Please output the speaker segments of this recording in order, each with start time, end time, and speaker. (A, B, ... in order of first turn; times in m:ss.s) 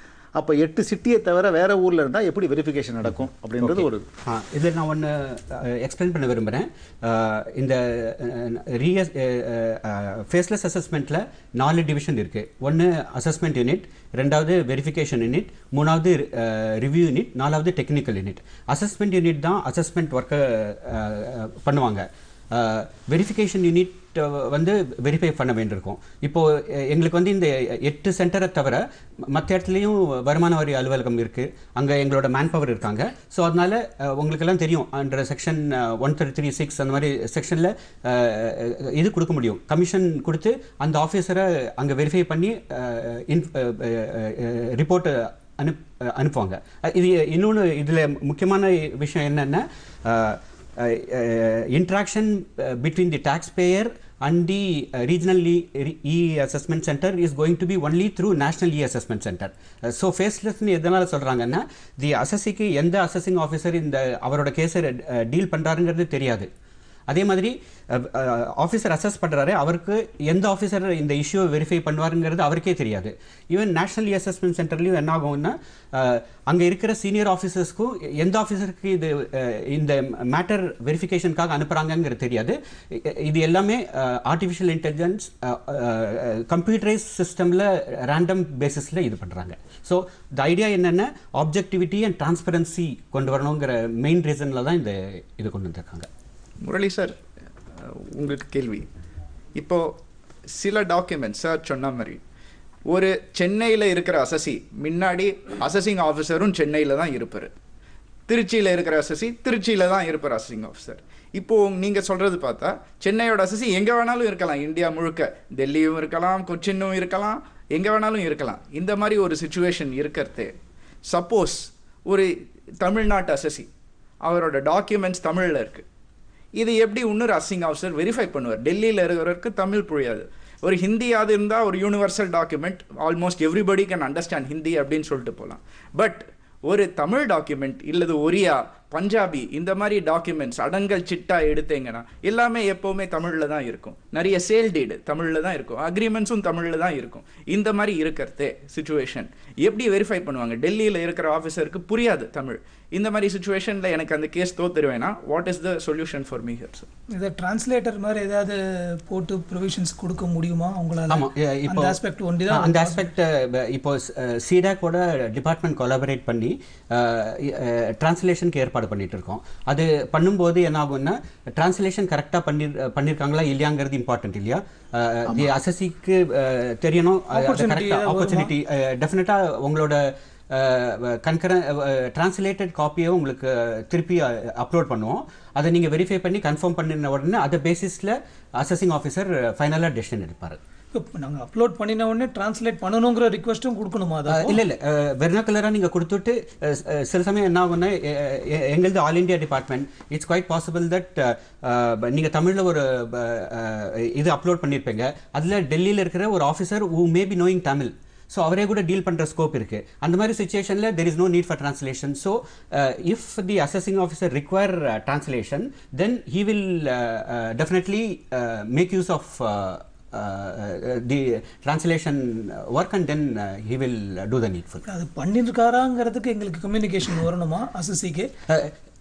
0:00.4-0:04.1 A
0:03.6-1:06.5 B
1:07.1-1:36.1 B
1:36.6-1:37.2 C
1:37.8-1:38.9 C
1:39.6-1:40.0 C
1:40.5-1:42.2 C
1:42.9-1:47.5 C
1:48.3-2:00.5 C
2:01.1-2:03.7 C
2:04.2-2:05.8 C
2:06.6-2:36.9 C
2:37.1-2:43.1 D
2:41.1-2:42.0 B
2:42.5-3:10.6 B
2:57.3-2:58.5 D
3:10.9-3:14.6 D
3:14.3-3:44.8 B
3:44.9-3:48.3 D
3:48.5-3:48.8 B